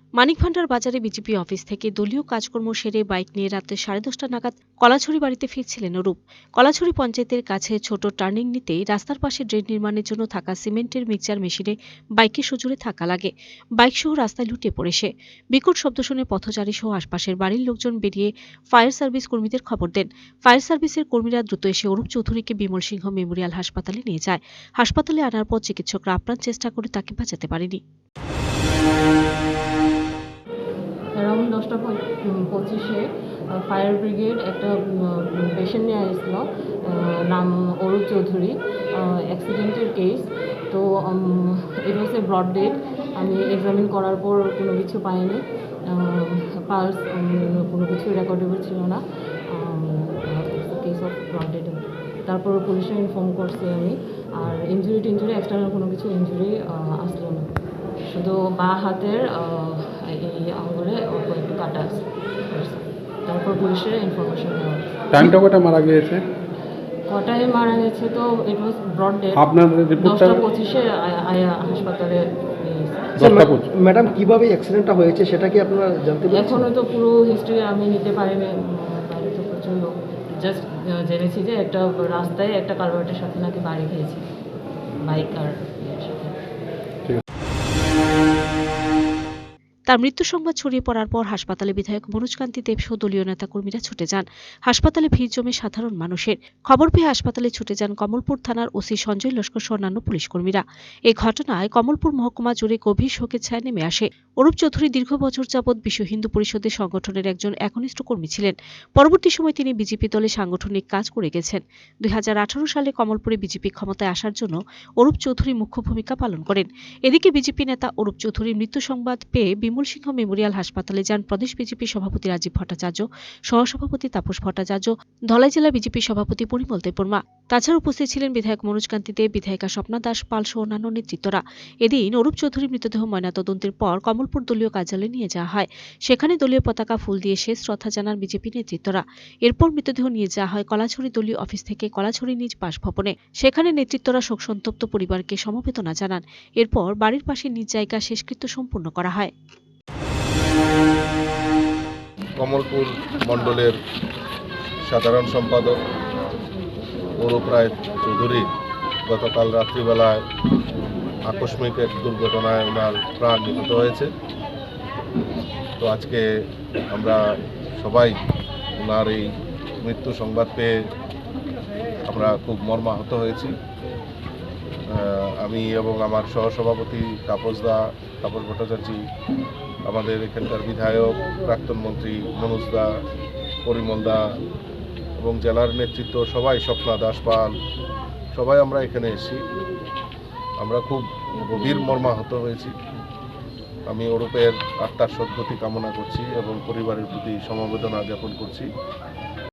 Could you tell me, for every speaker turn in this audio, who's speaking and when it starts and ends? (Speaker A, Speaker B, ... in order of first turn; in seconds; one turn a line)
Speaker A: 0.2-27.8
Speaker B: 31.2-57.5
Speaker B: 58.1-65.2
Speaker C: 65.1-66.2
Speaker B: 67.1-69.5
Speaker C: 69.3-70.4
Speaker B: 70.0-73.1
Speaker C: 73.2-73.7
Speaker D: 73.2-76.7
Speaker B: 76.3-84.2
Speaker B: 85.0-86.4
Speaker A: 89.9-149.3
Speaker E: 152.4-153.7
Speaker E: 154.9-155.8
Speaker E: 157.2-158.4
Speaker E: 159.1-160.2
Speaker E: 161.2-164.1
Speaker E: 165.8-166.2
Speaker E: 166.9-167.2
Speaker E: 167.8-168.2
Speaker E: 168.8-169.3
Speaker E: 169.8-170.7
Speaker E: 172.1-173.5
Speaker E: 174.9-179.0
Speaker E: 179.9-182.9
Speaker E: 183.7-184.2
Speaker E: 185.2-187.6
Speaker E: 188.3-189.4
Speaker E: 190.6-192.7
Speaker E: 193.9-198.7